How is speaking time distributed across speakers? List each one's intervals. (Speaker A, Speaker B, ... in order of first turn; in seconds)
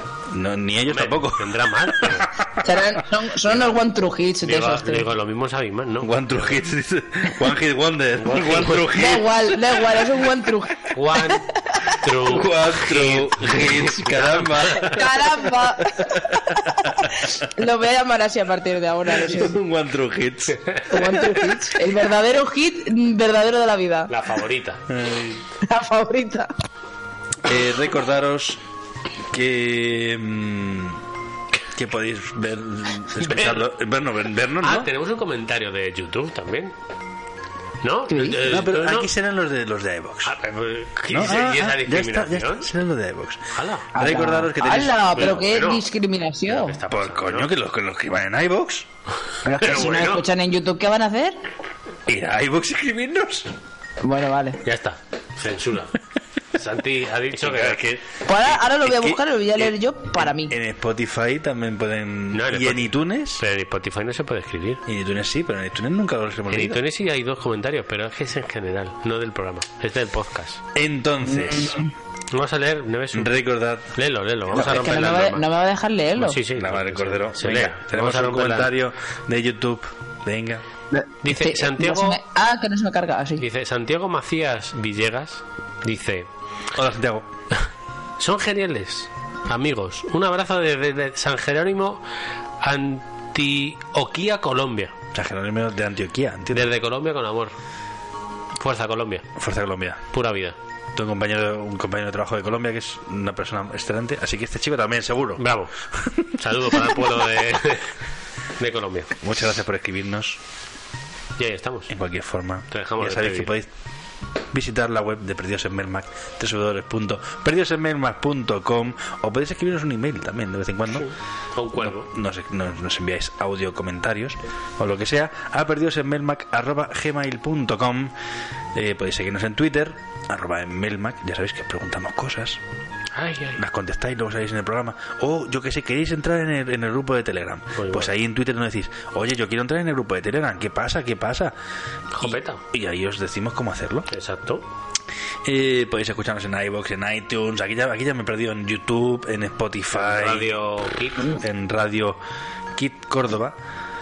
Speaker A: 0.3-2.5, 6.0-10.1, 12.2-17.3, 19.1-21.6, 24.9-25.4, 27.4-28.6, 29.3-31.0, 31.7-34.9, 38.4-40.3, 41.1-45.1, 46.9-48.9, 52.1-53.5, 57.4-63.4, 64.8-66.8, 70.7-71.8, 73.1-73.9, 74.5-74.9, 76.5-80.6, 86.7-87.3, 95.1-96.7, 99.4-100.0, 100.9-105.4, 109.2-110.4, 111.9-113.7, 114.5-121.1, 121.7-128.1, 128.7-132.6, 133.6-141.5, 142.2-144.1, 145.4-150.5, 151.3-152.2, 152.7-153.6
Speaker B: 0.9-2.3, 4.4-6.5, 8.2-8.9, 10.9-15.0, 20.6-20.9, 24.1-24.8, 33.2-33.6, 34.6-36.7, 37.8-39.1, 40.2-42.7, 43.5-43.9, 45.1-45.8, 46.5-47.5, 49.6-50.2, 54.6-55.9, 56.5-57.8, 62.3-64.8, 66.5-70.6, 72.3-73.3, 73.9-75.5, 76.2-78.7, 81.2-82.2, 83.4-86.3, 88.2-92.0, 92.6-94.9, 96.5-97.5, 98.6-99.3, 100.1-100.5, 105.4-105.7, 106.3-107.9, 108.6-109.1, 111.4-111.9, 112.7-113.5, 120.9-122.1, 133.1-133.6, 137.8-138.1, 142.1-142.6, 144.1-144.6, 149.9-151.4
Speaker C: 2.6-5.1, 8.9-10.9, 14.9-19.5, 20.9-24.1, 25.6-26.5, 38.1-38.4, 43.9-46.8, 49.4-51.4, 54.0-54.6, 58.2-60.5, 74.5-76.4, 80.9-83.4